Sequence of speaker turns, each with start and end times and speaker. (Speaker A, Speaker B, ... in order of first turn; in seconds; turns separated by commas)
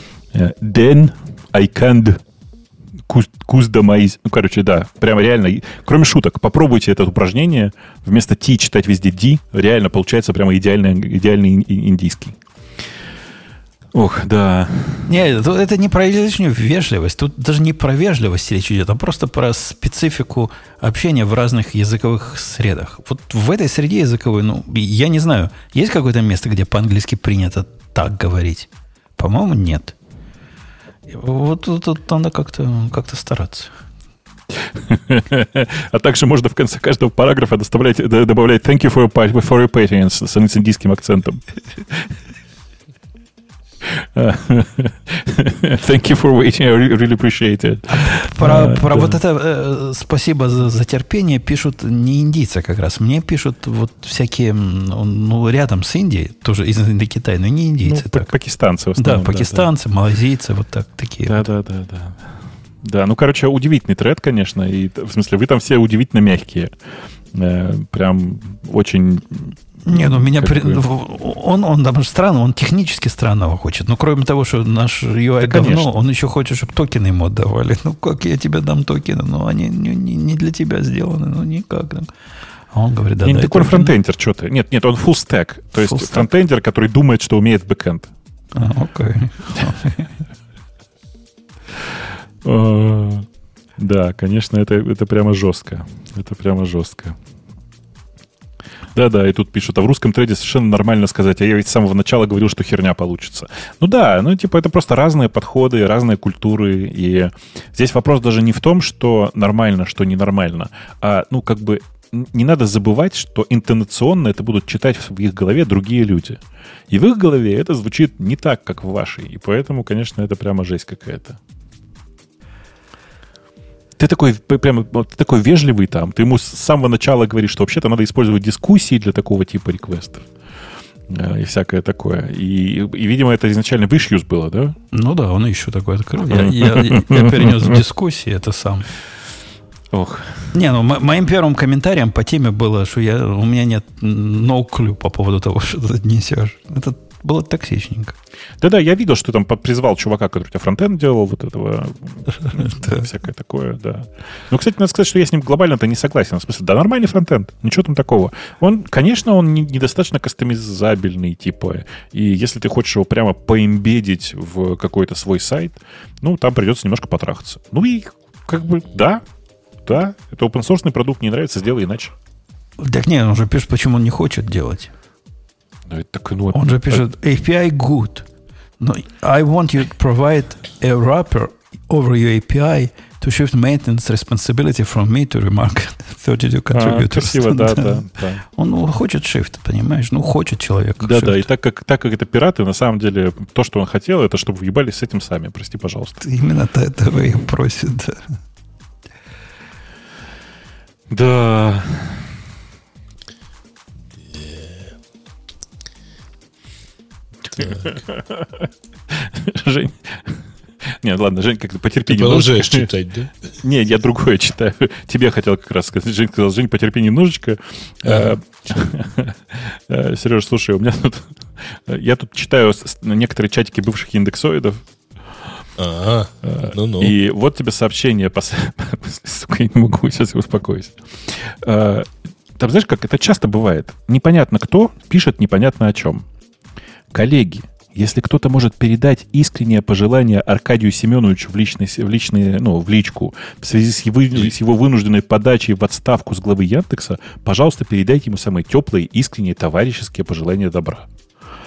Speaker A: 0.3-2.2, Speaker A: 3.1-12.4, Speaker A: 13.9-15.2, Speaker B: 15.1-29.9, Speaker B: 31.1-33.7, Speaker A: 34.5-42.1, Speaker A: 43.8-49.2, Speaker B: 47.9-58.3, Speaker A: 57.8-59.7, Speaker B: 59.0-61.5, Speaker A: 61.3-66.7, Speaker A: 67.3-70.8, Speaker B: 69.8-82.1, Speaker A: 75.4-75.9, Speaker B: 82.7-84.0, Speaker A: 83.2-88.1, Speaker B: 85.7-86.3, Speaker B: 88.5-90.1, Speaker A: 91.8-93.3, Speaker A: 93.8-97.2, Speaker A: 98.9-121.4, Speaker A: 124.0-130.2, Speaker A: 131.1-134.8, Speaker B: 134.9-138.9, Speaker A: 136.3-137.8, Speaker A: 139.9-140.5, Speaker B: 140.5-148.2, Speaker A: 148.6-169.2, Speaker A: 169.8-172.1, Speaker B: 172.8-174.9, Speaker A: 175.9-177.0, Speaker B: 176.5-178.2, Speaker B: 178.8-191.4, Speaker A: 186.7-188.4, Speaker A: 191.0-196.2, Speaker B: 196.2-198.2, Speaker A: 201.1-202.4, Speaker C: 204.2-204.9, Speaker A: 207.5-212.9, Speaker C: 207.6-207.8, Speaker C: 212.0-213.5, Speaker A: 213.6-224.8, Speaker C: 218.0-218.3, Speaker C: 225.8-227.2, Speaker A: 226.4-236.2, Speaker A: 237.1-251.1